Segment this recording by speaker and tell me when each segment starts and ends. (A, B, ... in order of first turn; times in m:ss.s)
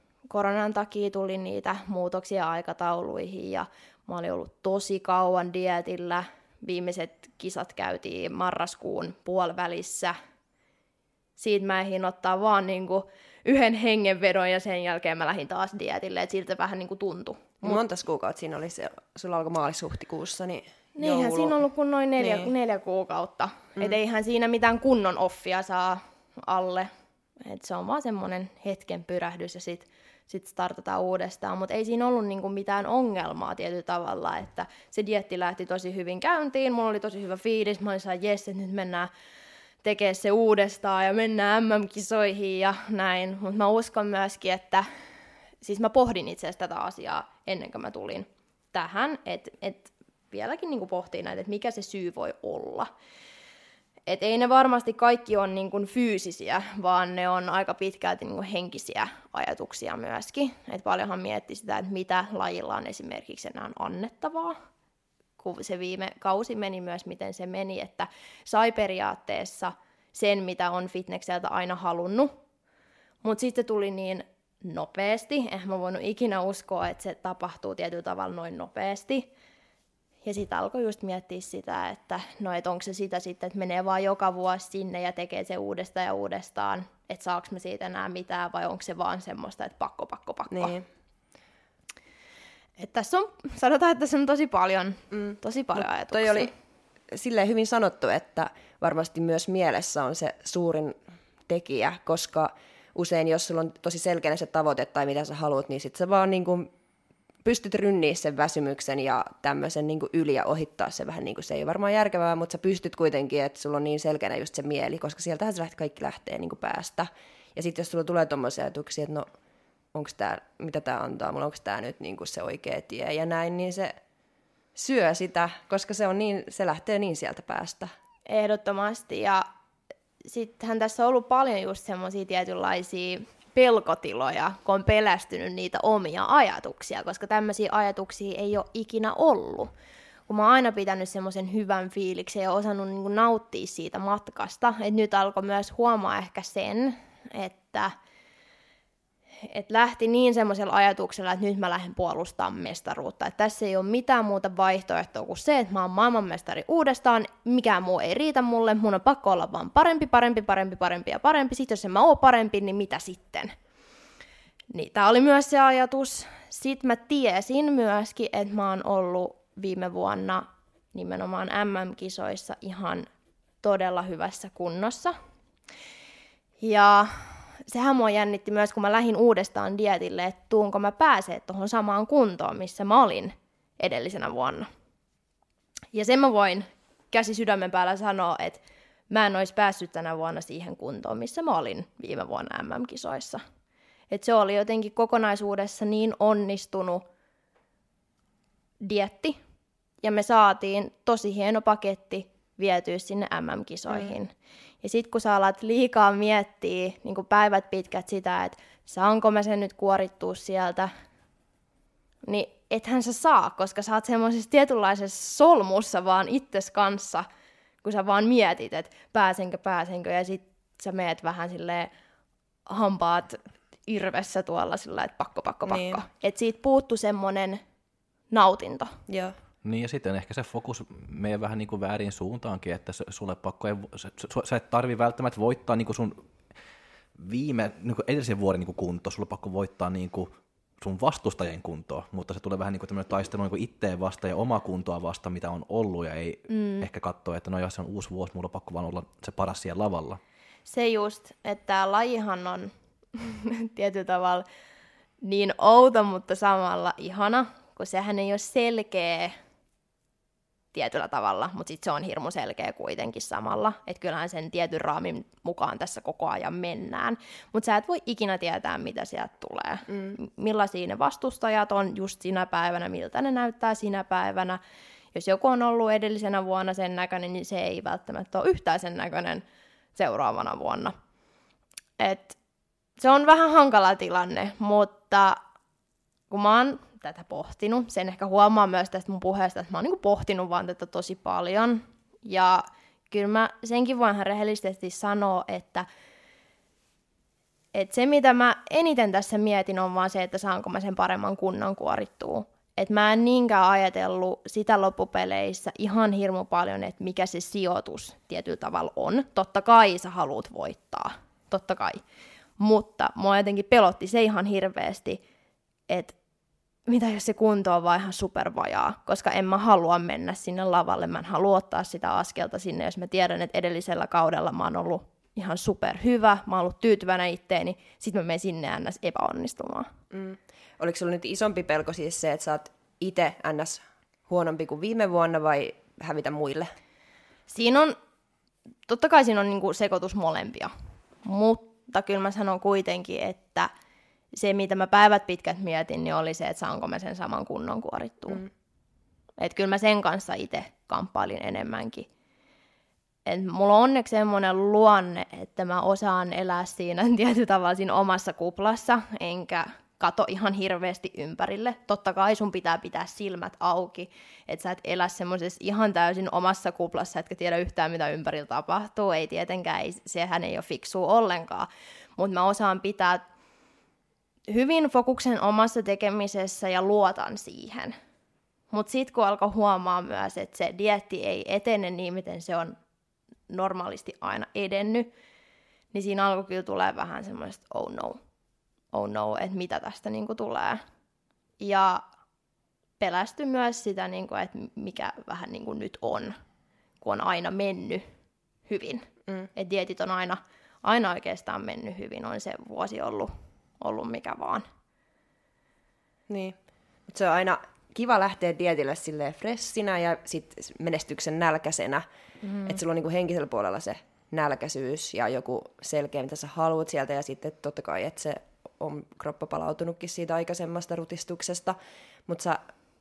0:00.3-0:10.1 A
0:11.4-0:17.8 A
0:17.6-0:21.6 B
0:21.0-0:39.1 A
0:22.2-0:22.5 B
0:39.8-0:44.8 A
0:45.6-0:52.9 A
0:54.1-1:04.6 A
1:05.4-1:12.3 A
1:13.2-1:19.3 A
1:20.2-1:30.8 A
1:30.5-1:30.8 B
1:32.8-1:36.5 A
1:35.1-1:36.5 B
1:37.1-1:46.7 B
1:47.4-1:59.2 B
1:59.9-2:04.0 B
2:04.8-2:07.9 B
2:08.3-2:09.4 A
2:10.2-2:19.7 A
2:20.3-2:27.9 A
2:29.4-2:43.5 A
2:44.7-2:53.1 A
2:53.6-2:55.1 A
2:56.6-3:04.7 A
3:05.9-3:13.4 A
3:14.1-3:17.0 A
3:18.8-3:19.4 A
3:20.0-3:30.9 A
3:32.2-3:37.2 A
3:37.8-3:41.9 A
3:42.7-3:47.6 A
3:45.6-3:46.0 B
3:48.3-3:48.9 A
3:49.1-3:49.4 B
3:49.6-3:56.2 C
3:57.2-4:10.2 C
4:06.5-4:06.9 A
4:10.7-4:14.4 A
4:15.2-4:19.3 A
4:20.7-4:34.6 A
4:29.9-4:30.1 B
4:35.1-4:39.4 A
4:39.9-4:40.9 A
4:42.0-4:42.4 A
4:43.0-4:45.4 A
4:46.3-4:55.9 A
4:57.7-5:12.0 A
5:12.6-5:15.2 A
5:15.9-5:16.1 A
5:16.9-5:29.9 A
5:30.1-5:36.7 B
5:37.5-5:37.9 A
5:38.9-5:40.7 A
5:41.2-5:43.7 A
5:44.3-5:48.4 A
5:49.4-5:52.1 A
5:53.2-6:13.2 A
6:14.5-6:17.9 A
6:18.7-6:22.8 A
6:23.5-6:25.1 A
6:25.9-6:28.2 A
6:28.9-6:30.8 A
6:31.6-6:32.0 A
6:33.0-6:36.3 A
6:37.0-6:38.0 A
6:38.6-6:44.6 A
6:46.3-6:46.6 B
6:47.1-6:52.0 B
6:52.4-6:52.7 A
6:52.6-7:01.8 B
7:02.3-7:02.6 B